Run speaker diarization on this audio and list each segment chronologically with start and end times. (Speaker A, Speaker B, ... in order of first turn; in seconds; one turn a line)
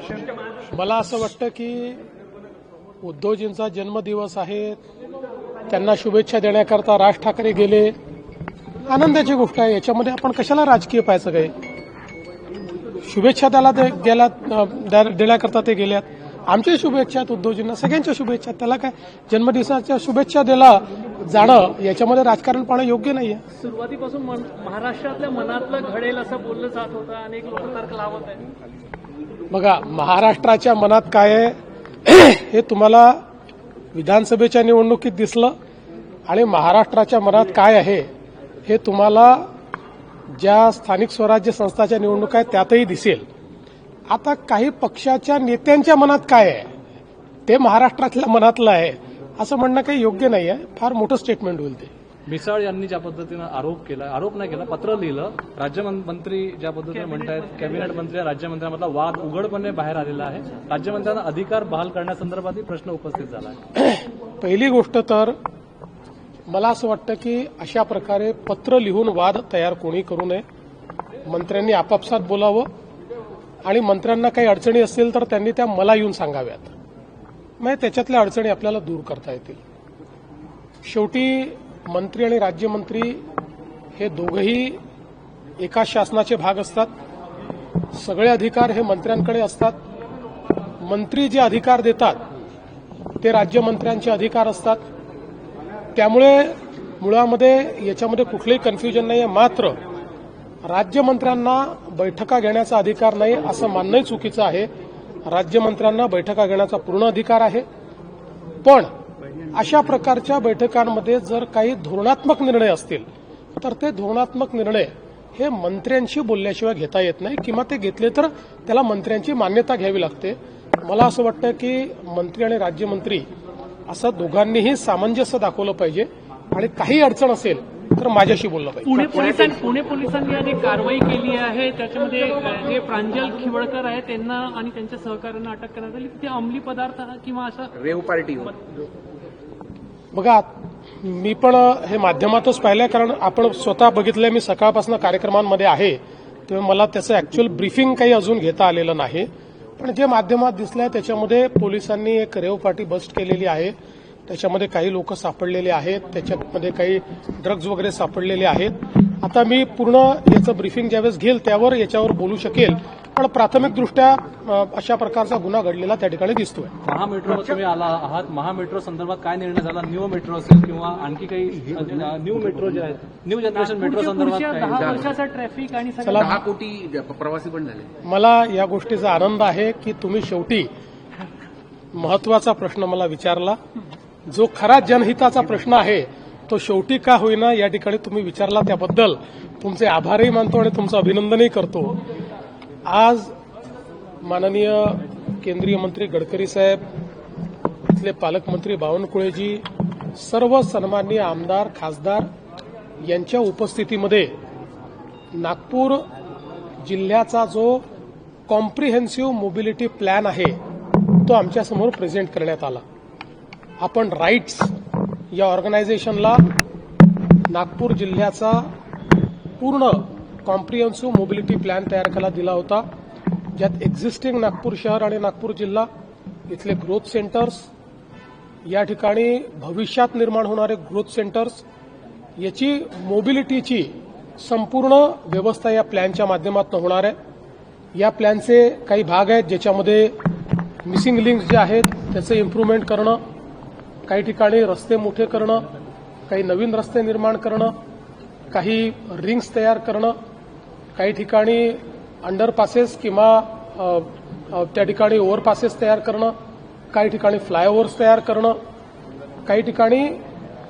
Speaker A: 0.7-2.0
Speaker A: 3.0-4.8
Speaker A: 5.7-7.9
Speaker A: 8.9-11.5
Speaker A: 13.0-23.4
Speaker B: 23.6-28.4
Speaker A: 29.5-33.2
Speaker A: 33.9-35.5
Speaker A: 36.3-38.1
Speaker A: 38.6-39.5
Speaker A: 40.3-43.2
Speaker A: 44.1-46.7
Speaker A: 47.5-51.9
Speaker C: 52.2-63.6
Speaker A: 63.7-65.3
Speaker A: 66.5-70.4
Speaker A: 71.3-72.7
Speaker A: 73.6-76.7
Speaker A: 77.6-79.6
Speaker A: 80.8-83.2
Speaker A: 84.0-84.8
Speaker A: 85.6-86.9
Speaker A: 87.9-89.8
Speaker A: 90.8-92.2
Speaker A: 93.2-94.8
Speaker A: 96.0-99.8
Speaker A: 100.6-104.7
Speaker A: 105.2-107.6
Speaker A: 108.6-108.9
Speaker A: 109.5-123.2
Speaker A: 123.9-129.1
Speaker B: 128.8-137.7
Speaker D: 137.7-138.6
Speaker A: 140.1-140.5
Speaker A: 141.0-153.7
Speaker A: 154.3-166.7
Speaker C: 166.8-175.1
Speaker B: 173.5-176.4
Speaker D: 174.8-175.0
Speaker A: 176.0-176.4
Speaker D: 176.2-177.9
Speaker A: 178.0-180.7
Speaker A: 181.9-183.6
Speaker A: 184.3-191.9
Speaker A: 192.8-193.3
Speaker A: 194.2-196.8
Speaker A: 197.9-199.6
Speaker A: 200.2-202.3
Speaker A: 203.1-204.3
Speaker A: 205.3-206.0
Speaker A: 206.8-207.8
Speaker A: 208.5-210.6
Speaker A: 211.2-212.8
Speaker A: 213.8-214.7
Speaker A: 215.3-216.4
Speaker A: 217.5-218.7
Speaker A: 219.6-222.8
Speaker A: 223.6-225.9
Speaker A: 226.5-227.7
Speaker A: 228.6-231.6
Speaker A: 232.4-237.2
Speaker A: 237.9-240.2
Speaker A: 240.8-243.2
Speaker A: 244.1-245.7
Speaker A: 246.3-247.7
Speaker A: 248.5-250.1
Speaker A: 250.9-256.3
Speaker A: 256.9-258.6
Speaker A: 259.4-260.1